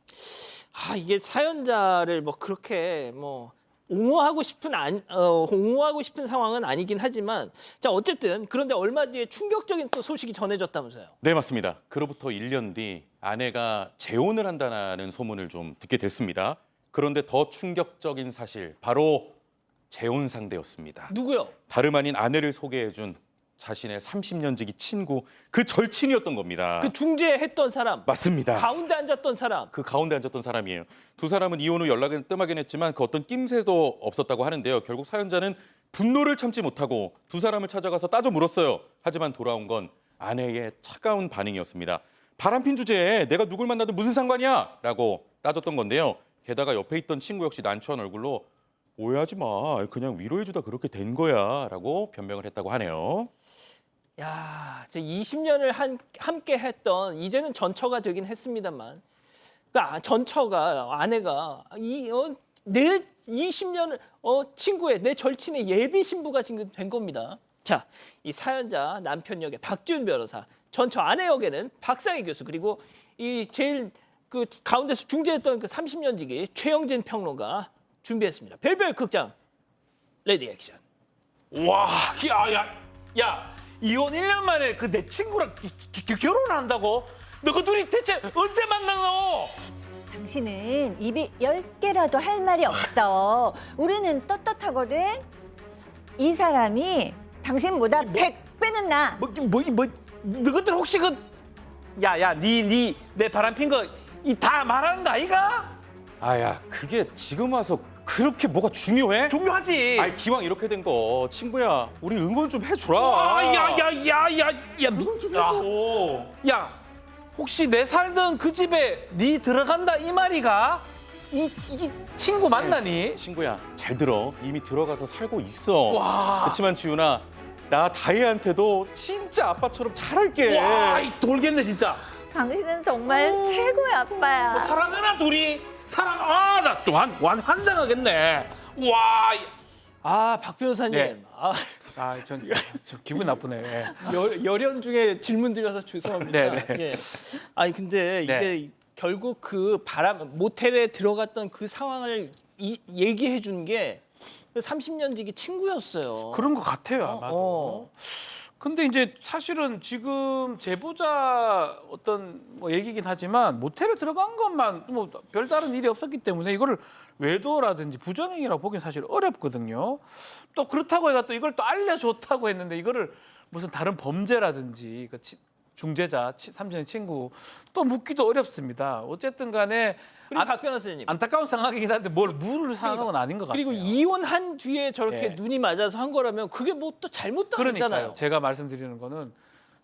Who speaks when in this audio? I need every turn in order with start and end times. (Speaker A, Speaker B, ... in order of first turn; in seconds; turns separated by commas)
Speaker A: 0.1-11.1, Speaker B: 11.2-19.4, Speaker B: 19.9-21.1, Speaker A: 21.1-21.5, Speaker B: 21.7-26.9, Speaker A: 26.8-29.7, Speaker B: 28.1-28.9, Speaker B: 29.7-48.5, Speaker B: 49.0-53.3, Speaker A: 54.2-59.0, Speaker A: 59.7-79.3, Speaker A: 80.2-80.8, Speaker C: 81.5-89.6, Speaker D: 90.1-95.3, Speaker D: 96.2-99.2, Speaker C: 98.0-98.3, Speaker C: 99.2-101.2, Speaker C: 102.0-105.8, Speaker B: 106.2-109.4, Speaker C: 109.3-110.2, Speaker B: 110.0-113.9, Speaker C: 112.9-116.8, Speaker B: 115.0-116.3, Speaker C: 117.3-123.2, Speaker B: 122.4-131.1, Speaker C: 125.9-126.6, Speaker C: 130.4-132.0, Speaker D: 132.2-134.8, Speaker C: 133.1-139.5, Speaker A: 140.0-156.5, Speaker C: 140.9-141.2, Speaker C: 142.0-144.1, Speaker C: 146.2-147.1, Speaker C: 148.2-148.5, Speaker C: 156.3-184.0, Speaker A: 157.0-157.9, Speaker A: 180.3-181.2, Speaker A: 182.8-188.2, Speaker C: 185.1-185.4, Speaker C: 187.6-189.4